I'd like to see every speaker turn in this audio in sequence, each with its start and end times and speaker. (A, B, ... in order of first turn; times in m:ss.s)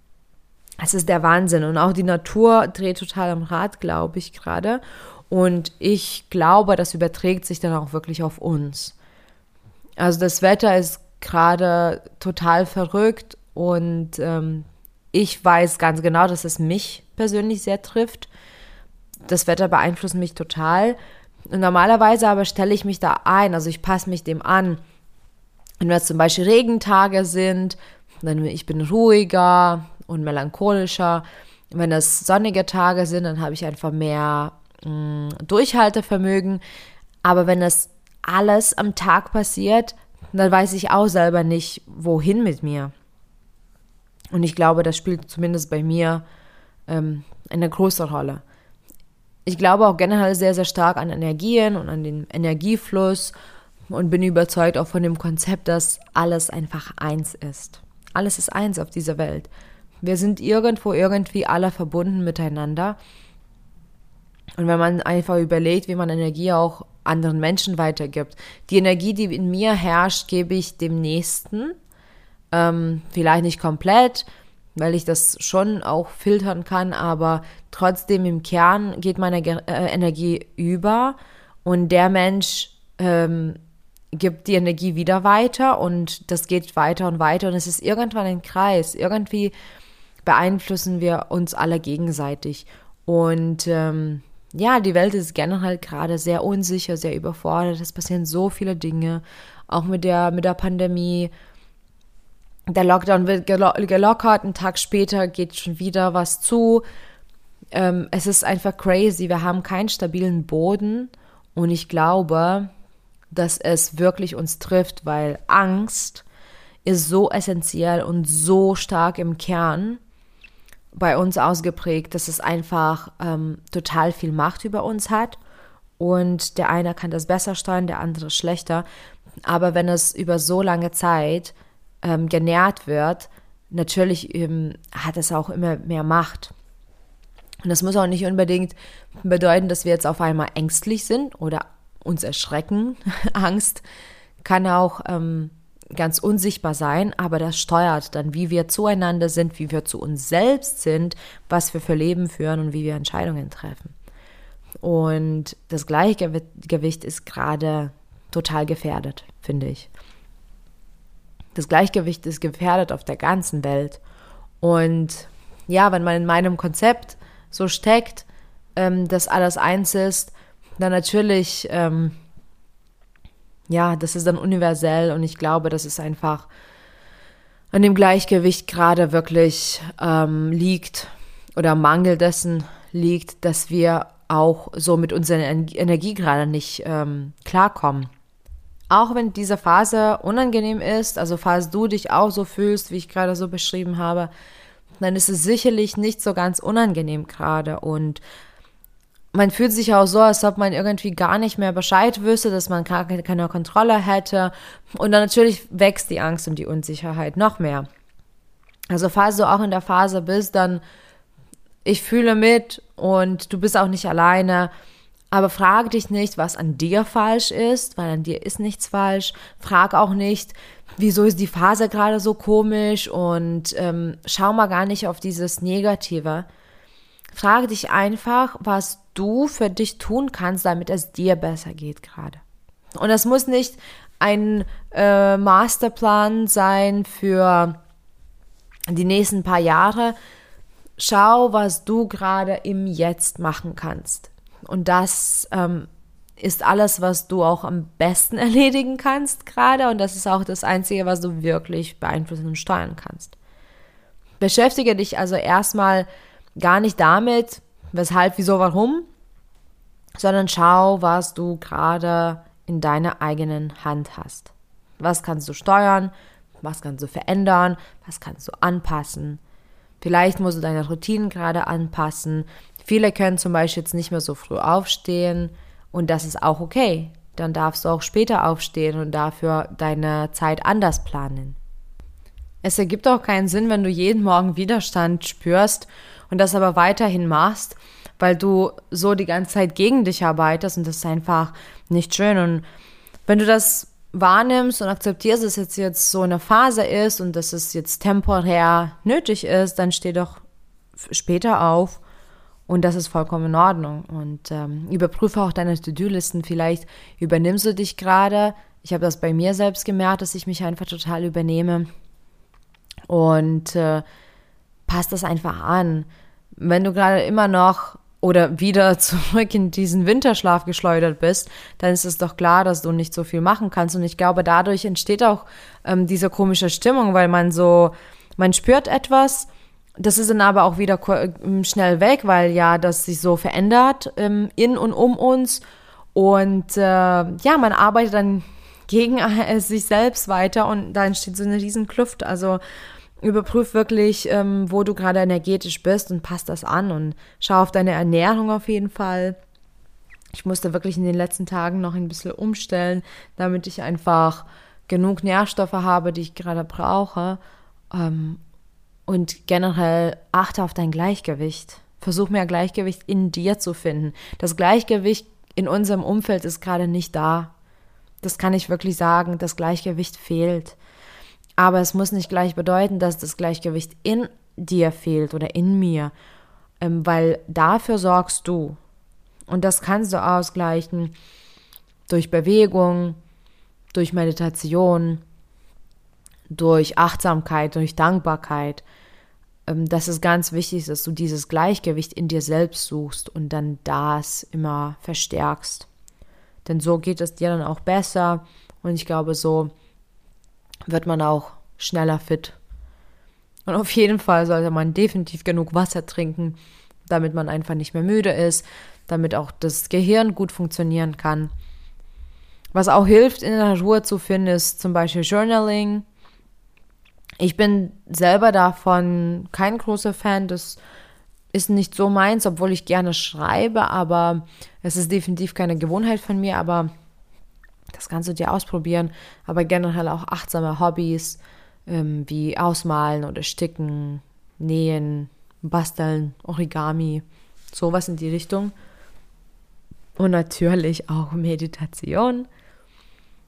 0:00.8-0:09.0 A
0:10.0-0:18.3 A
0:19.3-0:21.0 A
0:21.5-0:24.8 A
0:25.8-0:36.6 A
0:37.2-0:42.9 A
0:44.3-0:46.2 A
0:46.9-0:48.4 A
0:49.5-0:53.4 A
0:53.9-0:59.5 A
1:00.0-1:03.0 A
1:04.6-1:11.8 A
1:12.5-1:23.6 A
1:24.1-1:29.6 A
1:30.2-1:41.3 A
1:42.7-1:46.8 A
1:47.7-1:52.7 A
1:53.3-1:56.2 A
1:56.8-2:00.0 A
2:00.9-2:05.4 A
2:06.0-2:08.8 A
2:09.4-2:16.5 A
2:17.6-2:23.8 A
2:24.4-2:34.0 A
2:34.8-2:39.9 A
2:41.6-2:44.0 A
2:44.6-2:52.2 A
2:53.7-2:56.5 A
2:57.7-3:08.1 A
3:08.9-3:14.3 A
3:15.0-3:18.2 A
3:19.3-3:27.9 A
3:28.9-3:30.8 A
3:31.8-3:34.7 A
3:35.3-3:46.5 A
3:47.3-3:52.4 A
3:53.0-3:57.8 A
3:58.9-4:00.2 A
4:01.0-4:05.9 A
4:06.4-4:13.4 A
4:14.4-4:19.1 A
4:20.2-4:29.4 A
4:30.0-4:41.6 A
4:42.6-4:52.6 A
4:53.3-5:00.4 A
5:01.0-5:02.0 A
5:02.7-5:11.9 A
5:13.1-5:14.0 A
5:14.9-5:35.6 A
5:36.2-5:42.6 A
5:43.2-5:49.4 A
5:50.3-5:57.4 A
5:57.9-5:58.4 A
5:59.1-6:07.5 A
6:08.2-6:10.8 A
6:11.6-6:16.1 A
6:16.8-6:18.8 A
6:19.5-6:21.1 A
6:22.1-6:23.2 A
6:23.9-6:25.2 A
6:26.5-6:28.8 A
6:29.7-6:35.9 A
6:36.6-6:39.7 A
6:40.9-6:42.6 A
6:43.7-6:51.5 A
6:52.7-6:56.0 A
6:57.4-7:00.8 A
7:01.5-7:06.9 A
7:07.9-7:18.7 A
7:20.2-7:22.5 A